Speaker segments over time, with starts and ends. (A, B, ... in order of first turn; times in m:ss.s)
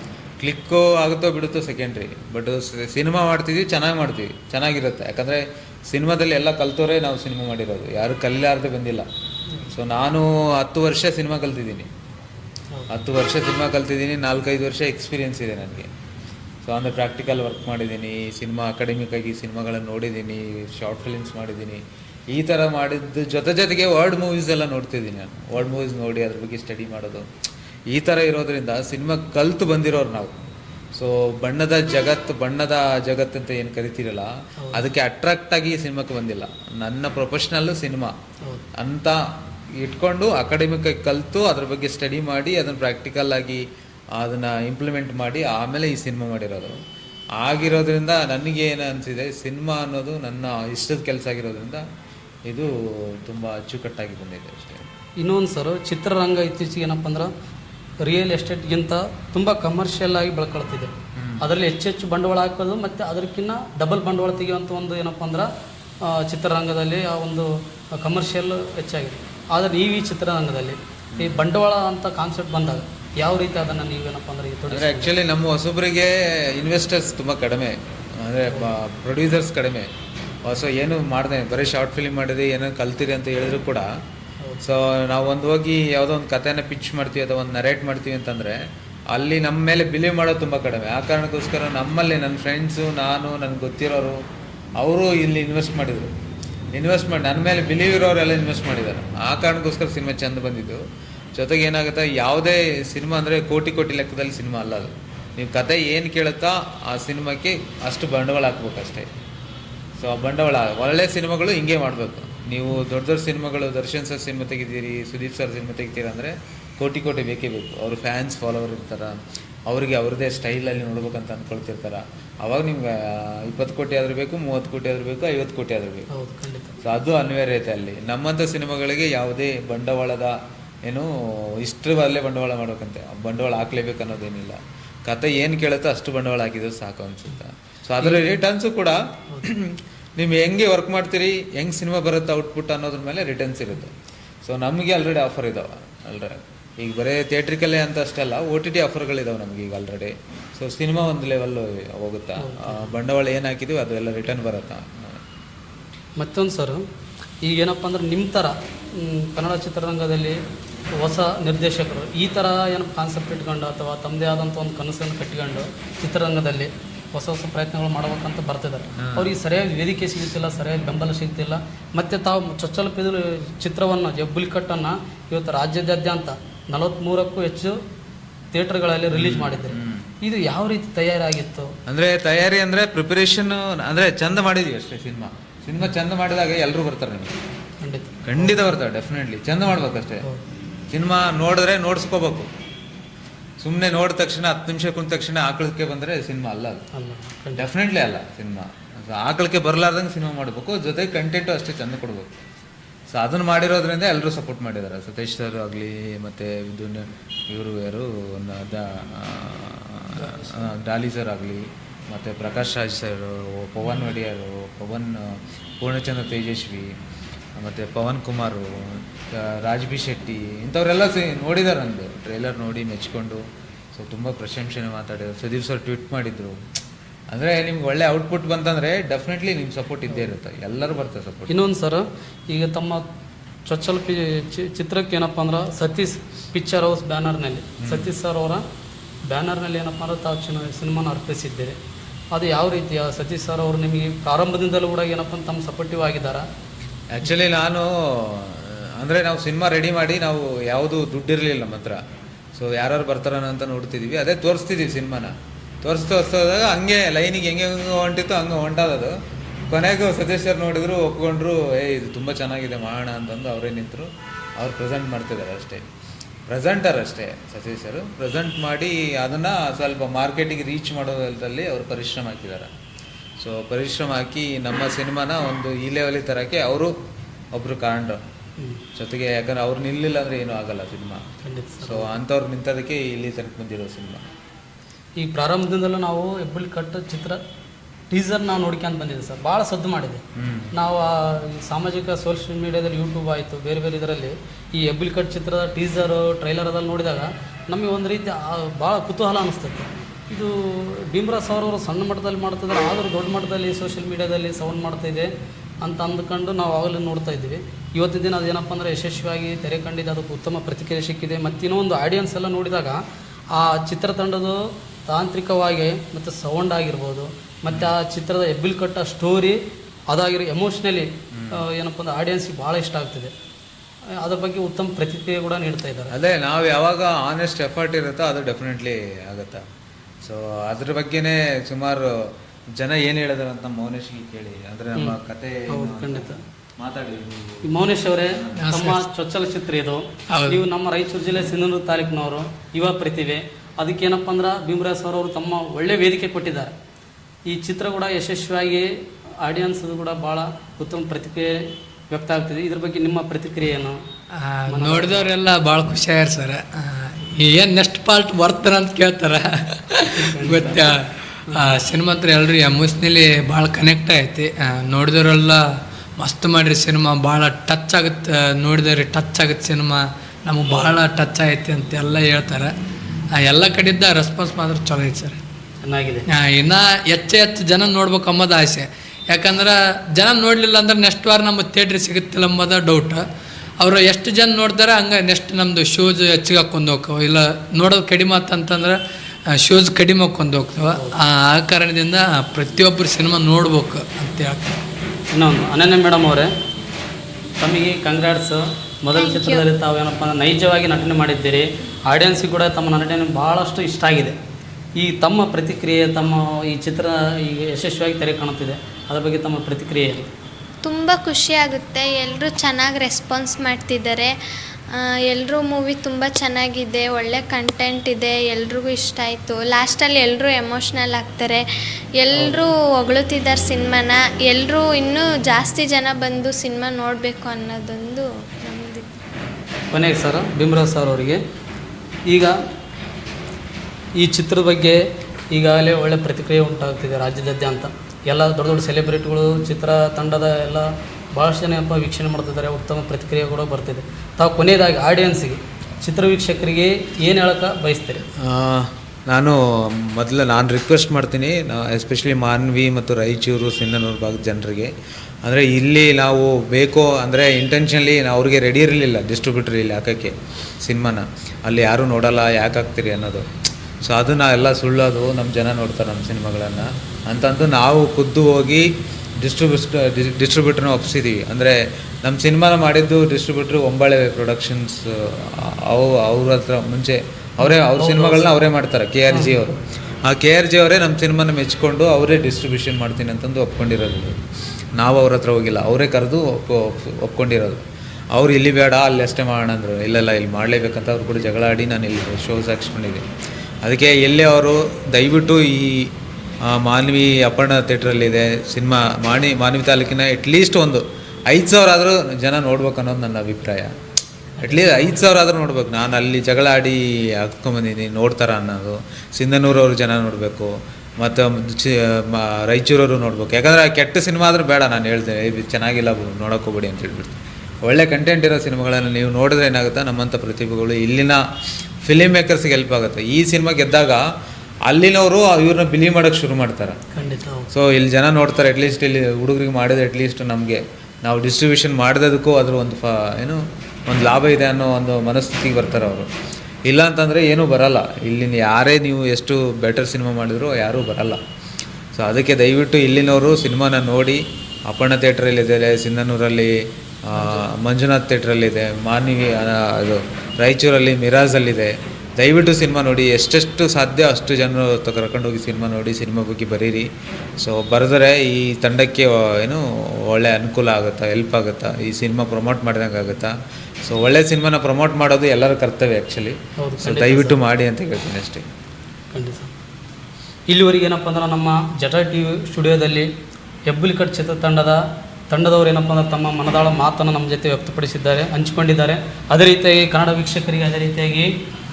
0:00.4-0:09.1 A
0:09.7-0:11.9 A
0:12.9-0:15.9 A
0:16.6-0:27.3 A
0:27.9-0:30.4 A
0:30.9-0:38.2 A
0:34.6-0:34.8 B
0:38.8-0:43.6 A
0:44.1-0:46.8 A
0:47.4-0:51.8 A
0:52.4-0:54.9 A
0:55.2-0:57.3 B
0:58.0-1:05.5 B
1:01.1-1:01.4 A
1:06.0-1:15.1 B
1:11.1-1:11.4 A
1:14.7-1:19.9 A
1:20.4-1:23.9 A
1:24.6-1:34.2 A
1:34.8-1:36.1 A
1:36.7-1:40.8 A
1:41.3-1:49.1 A
1:50.0-2:06.1 A
2:06.1-2:06.8 B
2:06.8-2:35.2 A
2:18.0-2:18.3 B
2:32.4-2:32.9 B
2:36.2-2:36.8 B
2:37.4-2:40.4 B
2:41.0-2:57.8 B
2:49.0-2:49.3 A
2:58.5-3:01.7 B
2:59.1-3:00.1 A
3:01.8-3:07.4 A
3:07.8-3:08.6 B
3:08.2-3:10.2 A
3:10.9-3:12.5 A
3:13.6-3:16.8 A
3:16.9-3:17.7 B
3:17.6-3:22.3 A
3:23.1-3:37.0 A
3:37.6-3:46.6 A
3:47.3-3:51.6 A
3:51.5-3:53.0 B
3:53.6-3:58.6 B
3:57.8-3:58.1 A
3:59.3-4:01.8 B
4:02.3-4:06.4 B
4:07.1-4:12.0 A
4:12.5-4:19.2 A
4:19.7-4:25.9 A
4:26.5-4:32.7 A
4:33.4-4:36.9 A
4:37.5-4:38.2 A
4:38.9-4:41.2 A
4:41.4-4:42.1 B
4:41.8-4:44.2 A
4:45.2-4:47.4 B
4:48.1-5:05.3 B
4:50.3-4:50.7 A
5:05.8-5:13.0 B
5:13.5-5:19.6 B
5:20.1-5:23.3 B
5:21.3-5:21.6 A
5:24.2-5:26.1 B
5:26.1-5:29.6 A
5:30.2-5:38.7 A
5:35.7-5:36.4 B
5:37.6-5:46.7 B
5:38.5-5:39.0 C
5:40.3-5:40.6 C
5:47.5-5:48.9 B
5:49.4-5:54.0 B
5:54.4-6:05.6 C
5:54.7-5:55.3 B
6:00.1-6:00.8 B
6:01.5-6:01.8 B
6:06.2-6:12.7 C
6:13.3-6:15.4 C
6:15.8-6:16.2 B
6:16.3-6:23.2 C
6:23.8-6:29.0 C
6:29.5-6:34.8 C
6:35.3-6:36.5 B
6:37.6-6:44.4 B
6:39.1-6:39.6 D
6:45.0-6:50.3 B
6:50.8-6:54.4 D
6:54.9-7:01.6 D
7:02.2-7:09.0 D
7:09.9-7:11.4 B
7:12.3-7:12.6 B
7:14.2-7:15.0 B
7:15.5-7:28.2 B
7:28.4-7:34.9 A
7:35.4-7:43.5 A
7:44.0-7:48.9 A
7:49.4-8:04.4 A
7:57.6-7:58.5 B
7:59.3-7:59.6 B
8:05.0-8:13.2 A
8:13.8-8:16.1 A
8:16.6-8:23.9 A
8:24.6-8:25.2 B
8:24.6-8:41.4 A
8:42.0-8:44.2 A
8:44.8-8:47.0 A
8:47.1-8:47.7 B
8:47.7-8:56.3 A
8:56.8-9:01.4 A
9:02.1-9:28.6 A
9:07.4-9:07.6 B
9:26.8-9:27.6 B
9:29.3-9:29.7 B
9:30.7-9:33.3 B
9:33.9-9:41.5 B